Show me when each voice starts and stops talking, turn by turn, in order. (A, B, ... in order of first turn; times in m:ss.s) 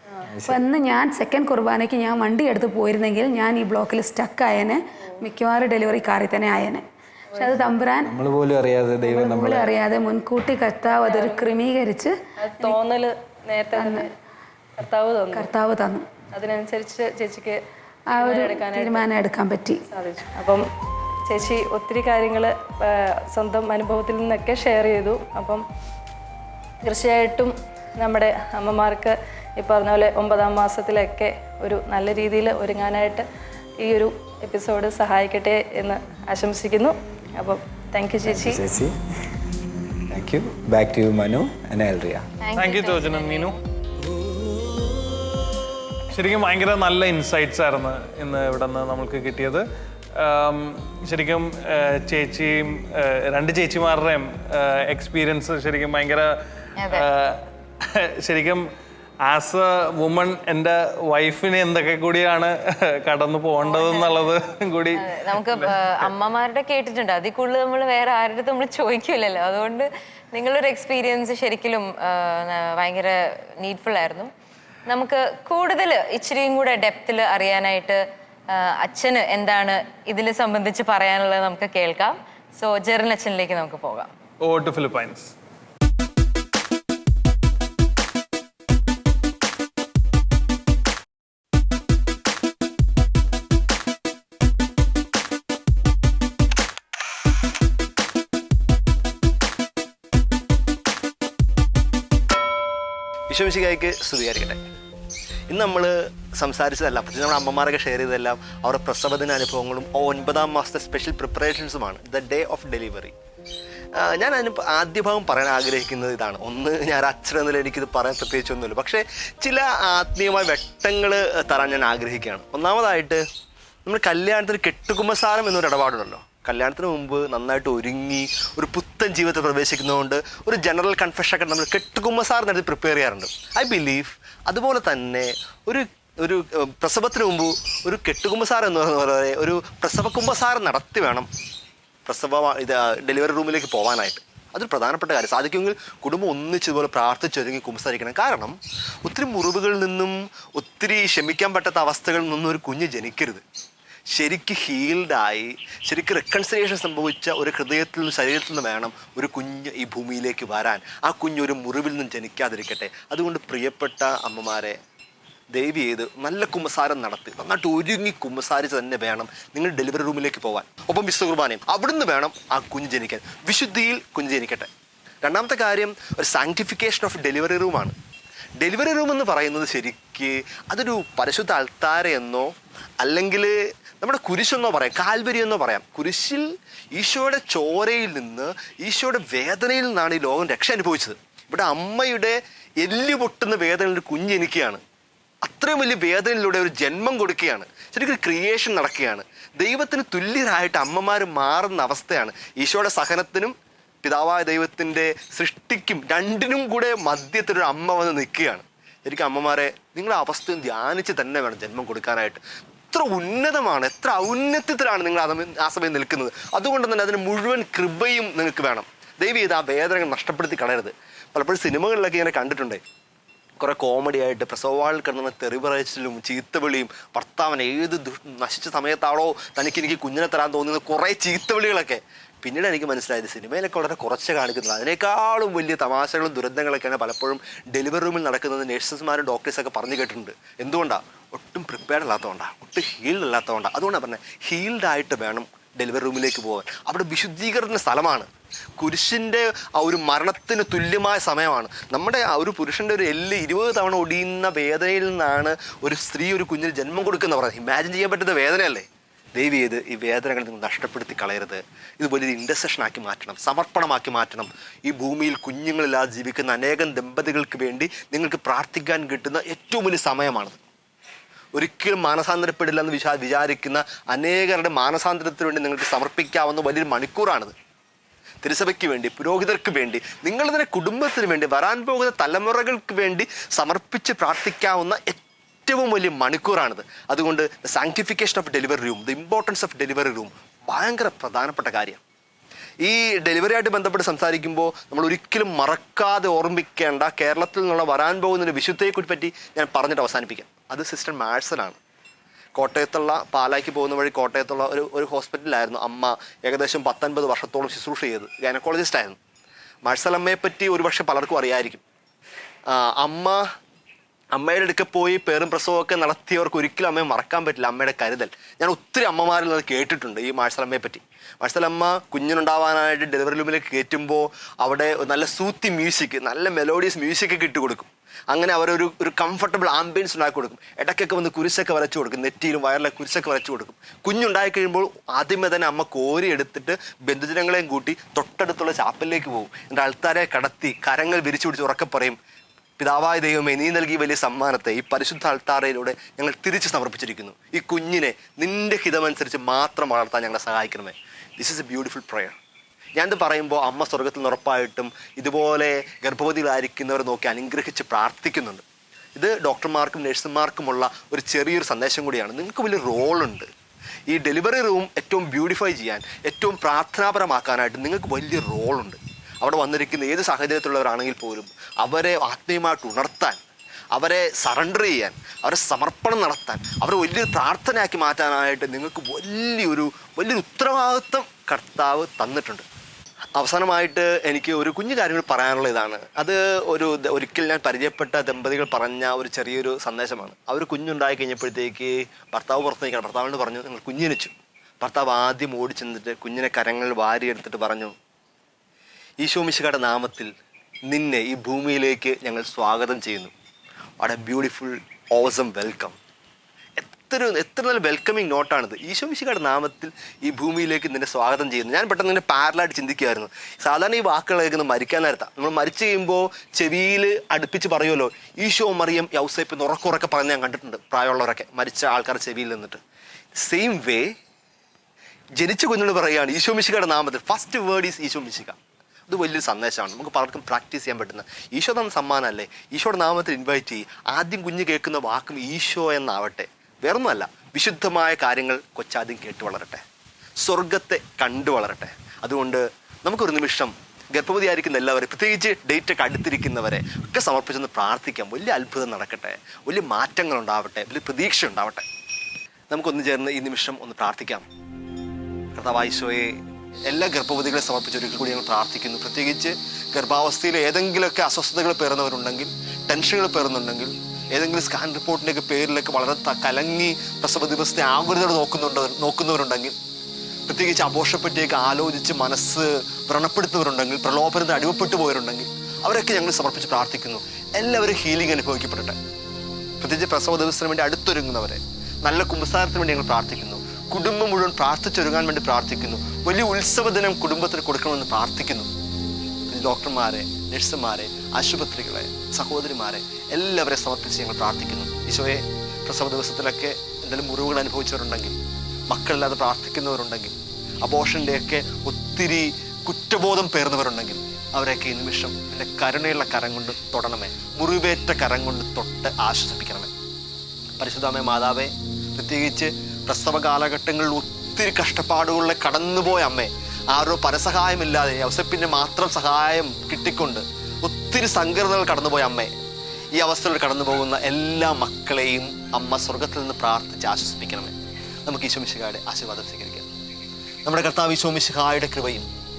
0:00.3-0:00.6 A
0:00.4-0:08.1 B
0:07.3-0:07.6 C
0:08.0-0:09.7 A
0:09.1-0:12.8 B
0:10.8-0:11.6 C
0:12.4-0:14.1 C
0:13.8-0:14.1 B
0:14.8-0:15.5 C
0:15.3-0:16.1 B
0:16.3-0:17.6 C
0:18.1-0:19.8 B
0:18.2-0:19.1 C
0:19.9-0:20.6 C
0:21.3-0:25.6 C
0:26.8-0:33.2 C
0:33.8-0:38.6 C
0:38.2-0:39.0 A
0:40.1-0:42.3 A
0:42.4-0:43.5 D
0:42.6-0:43.6 E
0:46.1-0:49.6 E
0:50.2-0:56.3 E
0:56.8-0:57.0 D
0:56.9-0:58.6 E
0:59.2-1:05.7 E
1:03.6-1:04.1 D
1:05.0-1:14.3 D
1:14.9-1:18.0 D
1:18.5-1:24.1 D
1:24.4-1:25.3 E
1:43.3-1:44.6 F
1:45.5-1:53.1 F
1:54.0-2:03.2 F
2:03.8-2:21.3 F
2:22.0-2:33.4 F
2:34.1-2:44.8 F
2:45.5-2:54.7 F
2:55.2-2:57.9 F
2:58.6-3:14.8 F
3:15.4-3:32.4 F
3:32.9-3:42.8 F
3:43.6-4:30.6 F
4:31.5-4:37.5 F
4:38.4-4:52.0 F
4:52.8-5:01.8 F
5:02.5-5:09.2 F
5:09.8-5:11.8 F
5:12.7-5:13.4 F
5:14.3-5:42.2 F
5:42.8-5:52.4 F
5:53.0-5:58.6 F
5:59.2-6:03.5 F
6:04.1-6:13.4 F
6:13.9-6:22.6 F
6:23.4-6:37.9 F
6:39.2-6:40.3 F
6:40.9-6:43.3 F
6:44.0-6:46.0 F
6:46.8-7:02.8 F
7:03.3-7:04.1 F
7:05.4-7:19.8 F
7:20.4-7:31.8 F
7:32.7-7:34.4 F
7:35.5-7:36.4 F
7:36.9-7:49.8 F
7:50.5-7:59.0 F
7:59.8-8:08.7 F
8:09.5-8:18.4 F
8:18.9-8:29.9 F
8:30.8-8:42.5 F
8:43.2-8:47.7 F
8:48.2-8:49.9 F
8:50.6-8:52.3 F